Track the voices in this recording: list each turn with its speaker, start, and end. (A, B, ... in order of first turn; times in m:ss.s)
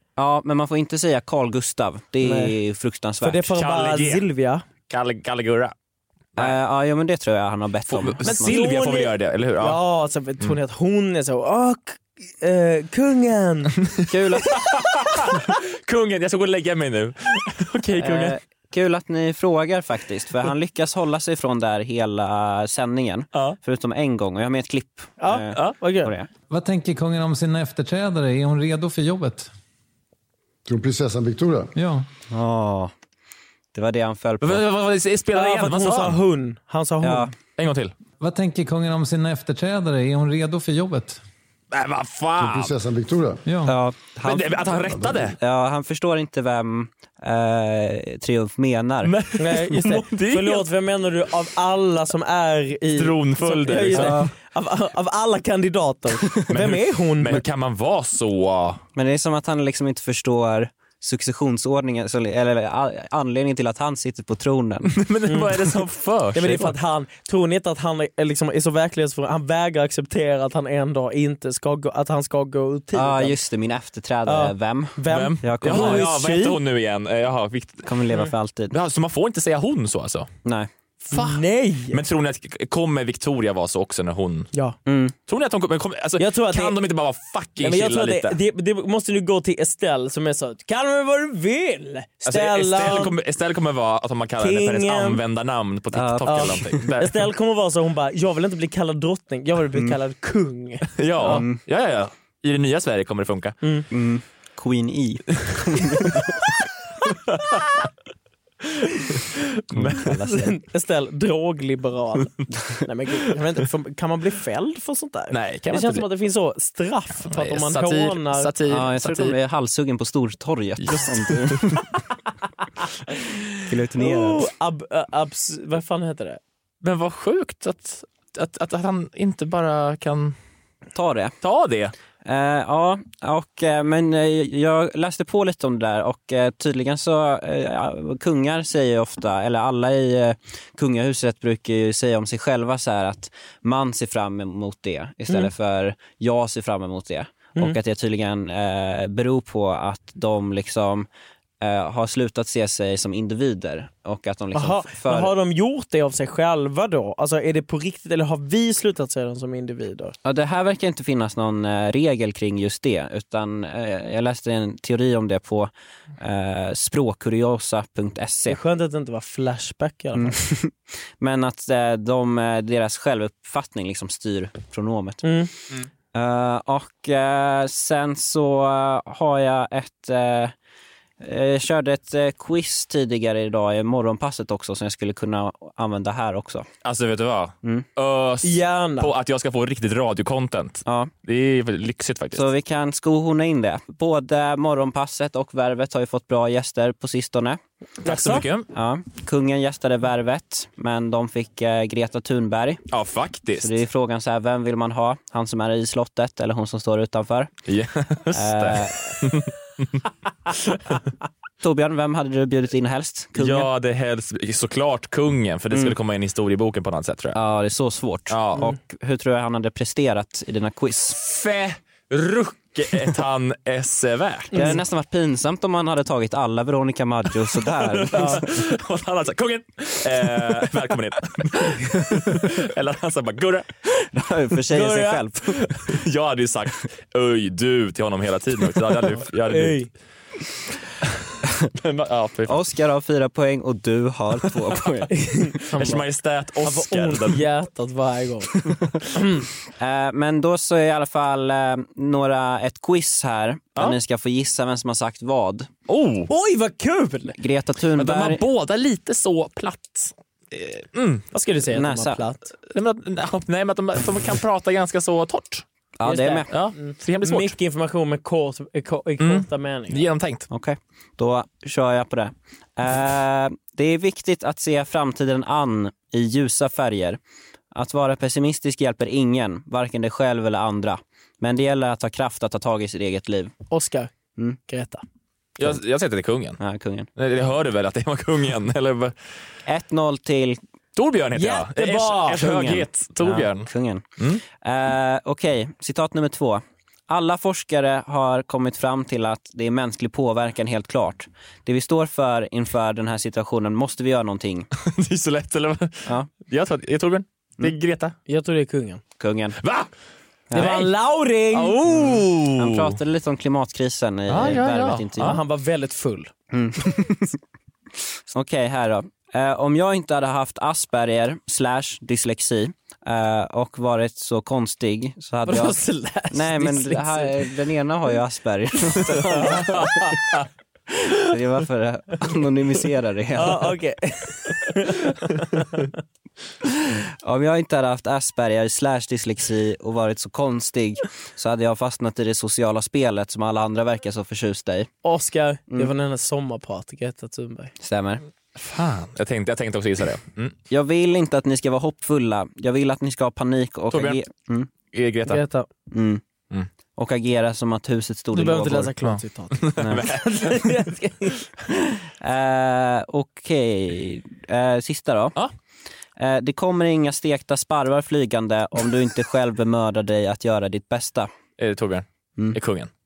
0:00.2-0:03.5 A
0:02.2-0:02.6 B
0:03.2-0:04.6 B
0:03.6-0:04.2 C
0:04.9-0:05.7 C
0:06.4-0:08.7 A
0:07.9-0:09.8 C
0:08.2-0:13.8 B
0:13.9-0:18.4 C
0:14.1-0:14.7 A
0:18.0-0:26.3 A
0:25.2-0:26.1 B
0:26.5-0:29.5 D
0:30.7-0:31.7 E
0:31.8-0:32.1 D
0:32.3-0:32.9 A
0:33.7-0:34.6 A
0:34.4-0:36.2 C
0:35.3-0:37.3 B
0:37.0-0:37.3 A
0:37.6-0:37.9 C
0:38.2-0:41.2 D
0:41.7-0:42.7 C
0:42.4-0:43.5 E
0:43.4-0:43.7 D
0:43.6-0:49.1 A
0:44.2-0:45.4 C
0:44.7-0:45.2 E
0:49.0-0:50.7 C
0:49.4-0:57.4 B
0:52.9-0:54.2 C
0:53.9-0:54.3 A
0:56.5-0:58.8 C
0:59.0-1:04.9 A
1:04.9-1:06.8 C
1:05.3-1:05.8 B
1:06.3-1:13.4 B
1:12.9-1:16.1 A
1:14.2-1:16.6 B
1:15.0-1:17.9 C
1:17.8-1:18.7 A
1:18.7-1:20.3 C
1:21.1-1:24.5 C
1:21.1-1:22.0 B
1:24.9-1:25.1 A
1:25.3-1:28.4 C
1:26.2-1:26.8 B
1:27.6-1:33.1 B
1:32.2-1:37.2 C
1:34.4-1:35.2 B
1:35.9-1:36.8 A
1:36.2-1:41.4 B
1:40.9-1:43.6 C
1:41.2-1:41.6 A
1:43.9-1:46.3 A
1:47.3-1:47.6 C
1:49.6-1:50.2 C
1:49.7-1:50.4 A
1:50.0-1:58.5 B
1:55.3-1:56.0 C
1:57.3-1:59.4 C
1:58.7-2:01.9 A
2:00.8-2:01.8 C
2:03.7-2:04.5 A
2:04.0-2:06.4 B
2:06.8-2:10.4 C
2:10.9-2:11.4 A
2:11.4-2:11.9 C
2:12.2-2:31.1 A
2:31.6-2:35.3 A
2:34.5-2:40.1 B
2:40.2-2:48.6 A
2:48.5-2:50.4 B
2:50.2-3:00.5 A
2:55.2-2:55.5 B
3:01.2-3:06.7 A
3:06.8-3:12.5 C
3:08.4-3:09.1 B
3:10.8-3:11.1 A
3:12.3-3:17.6 A
3:18.0-3:18.4 B
3:18.0-3:18.7 C
3:18.7-3:22.8 A
3:22.9-3:23.7 C
3:23.6-3:27.5 A
3:27.7-3:31.0 C
3:28.3-3:29.1 A
3:31.6-3:33.7 A
3:33.4-3:37.4 C
3:37.3-3:41.2 A
3:38.3-3:38.7 C
3:41.1-3:44.6 C
3:44.5-3:44.8 B
3:44.5-3:48.6 A
3:47.7-3:53.7 C
3:48.1-3:48.4 B
3:54.1-3:55.6 A
3:54.7-3:55.2 B
3:55.8-3:59.8 C
3:59.5-3:59.9 B
4:01.8-4:02.6 C
4:02.5-4:05.1 A
4:05.1-4:06.0 B
4:05.8-4:07.4 C
4:06.6-4:08.5 B
4:09.1-4:09.4 B
4:09.8-4:15.7 A
4:15.9-4:16.3 C
4:16.3-4:17.4 B
4:17.4-4:18.4 A
4:18.0-4:21.2 C
4:21.3-4:22.5 B
4:21.7-4:22.2 A
4:22.6-4:25.6 C
4:26.0-4:26.5 A
4:26.0-4:30.0 B
4:26.5-4:27.5 C
4:29.2-4:30.5 C
4:30.5-4:37.2 A
4:37.7-4:43.5 A
4:43.7-4:44.1 B
4:44.7-4:45.0 B
4:45.6-4:46.6 C
4:46.6-4:47.1 A
4:47.2-4:49.2 C
4:49.6-4:50.6 A
4:51.0-4:54.4 C
4:51.3-4:52.7 B
4:52.4-5:04.7 A
5:04.8-5:08.1 C
5:06.0-5:06.3 A
5:08.3-5:09.0 B
5:09.2-5:09.6 A
5:09.6-5:09.9 C
5:10.5-5:10.8 A
5:10.5-5:10.9 C
5:10.5-5:12.2 B
5:11.5-5:13.0 C
5:12.5-5:15.4 A
5:14.3-5:15.4 C
5:15.2-5:16.3 B
5:16.5-5:17.4 A
5:18.3-5:25.8 A
5:25.4-5:27.5 B
5:26.3-5:29.7 A
5:29.2-5:30.4 C
5:29.3-5:29.8 B
5:31.2-5:33.7 A
5:33.4-5:35.9 B
5:36.8-5:44.9 A
5:45.0-5:47.7 B
5:47.8-5:48.2 A
5:48.6-5:50.6 C
5:50.7-5:54.7 A
5:53.9-5:54.2 C
5:54.9-5:55.4 C
5:55.3-5:55.7 B
5:55.9-5:56.2 A
5:57.0-5:58.9 A
5:58.3-6:01.4 B
5:59.0-6:00.7 C
5:59.8-6:00.1 A
6:01.7-6:05.4 A
6:06.2-6:11.3 A
6:11.6-6:12.9 C